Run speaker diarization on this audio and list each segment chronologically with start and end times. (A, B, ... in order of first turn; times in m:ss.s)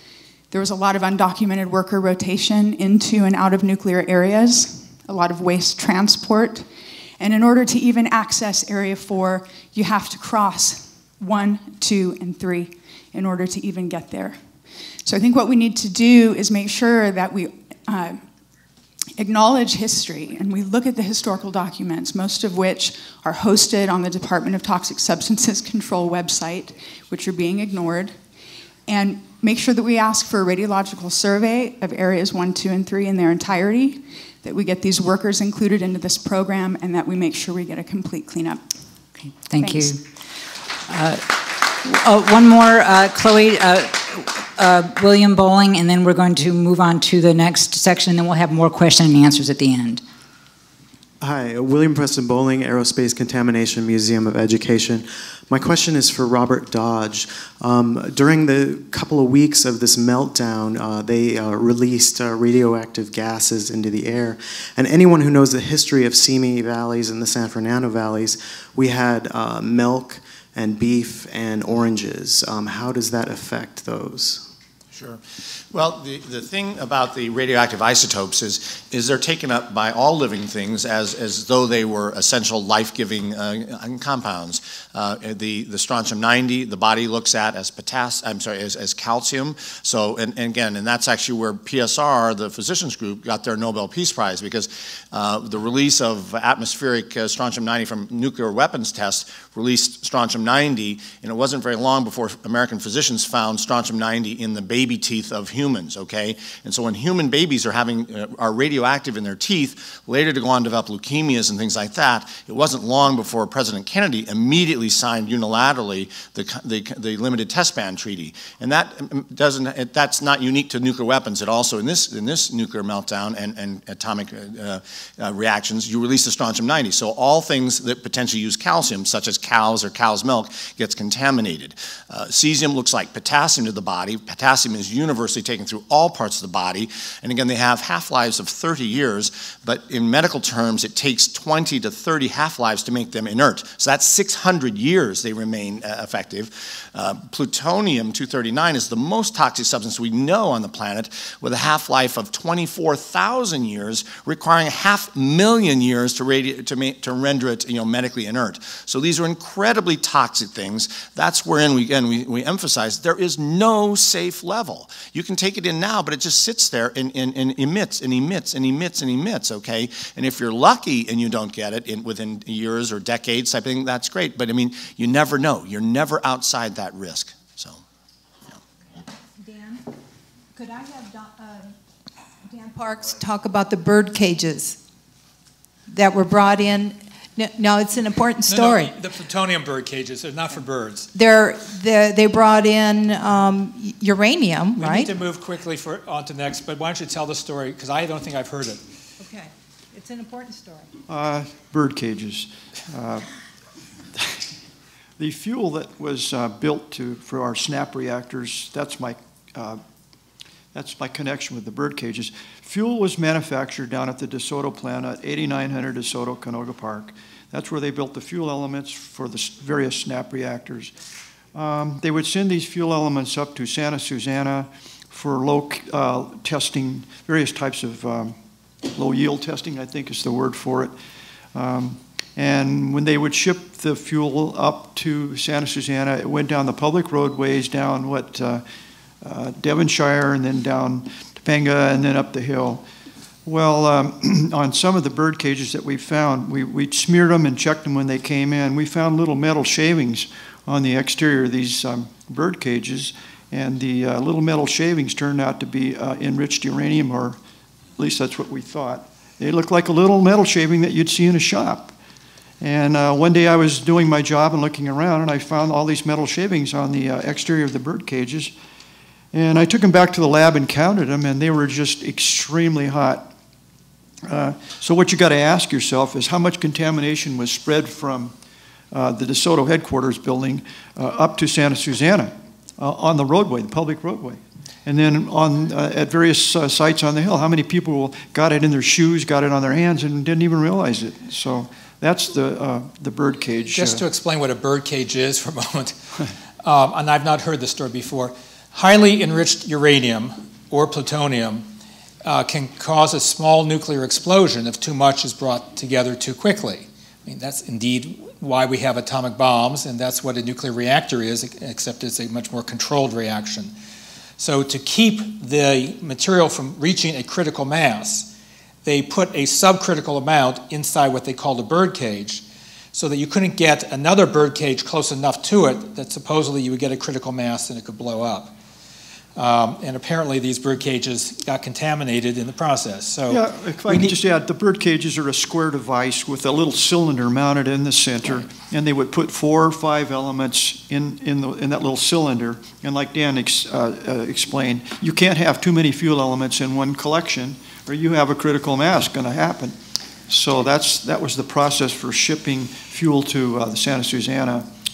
0:00.5-0:18.3 A
0:19.2-0:28.2 A
0:28.9-0:38.7 A
0:39.3-0:40.0 B
0:39.6-0:40.0 A
0:40.9-0:50.0 B
0:51.2-1:14.5 C
1:14.9-2:57.8 D
2:59.4-2:59.8 E
3:00.6-3:01.8 E
3:02.4-3:04.8 E
3:05.9-3:08.9 E
3:08.5-3:11.1 F
3:11.1-3:15.1 E
3:14.8-3:18.8 F
3:19.2-3:20.9 E
3:21.1-3:23.3 G
3:24.1-3:24.5 G
3:25.2-3:29.8 G
3:30.7-3:40.9 G
3:41.5-3:50.9 G
3:51.5-3:58.6 G
3:59.2-4:02.8 G
4:03.5-4:17.4 G
4:18.0-4:22.0 G
4:22.6-4:28.5 G
4:29.3-4:33.3 G
4:34.2-4:38.4 G
4:38.9-4:54.0 G
4:53.7-4:56.0 F
4:56.6-5:01.7 F
5:02.2-5:13.7 F
5:14.4-5:18.3 F
5:18.8-5:28.5 F
5:29.4-5:34.2 F
5:33.3-5:54.7 G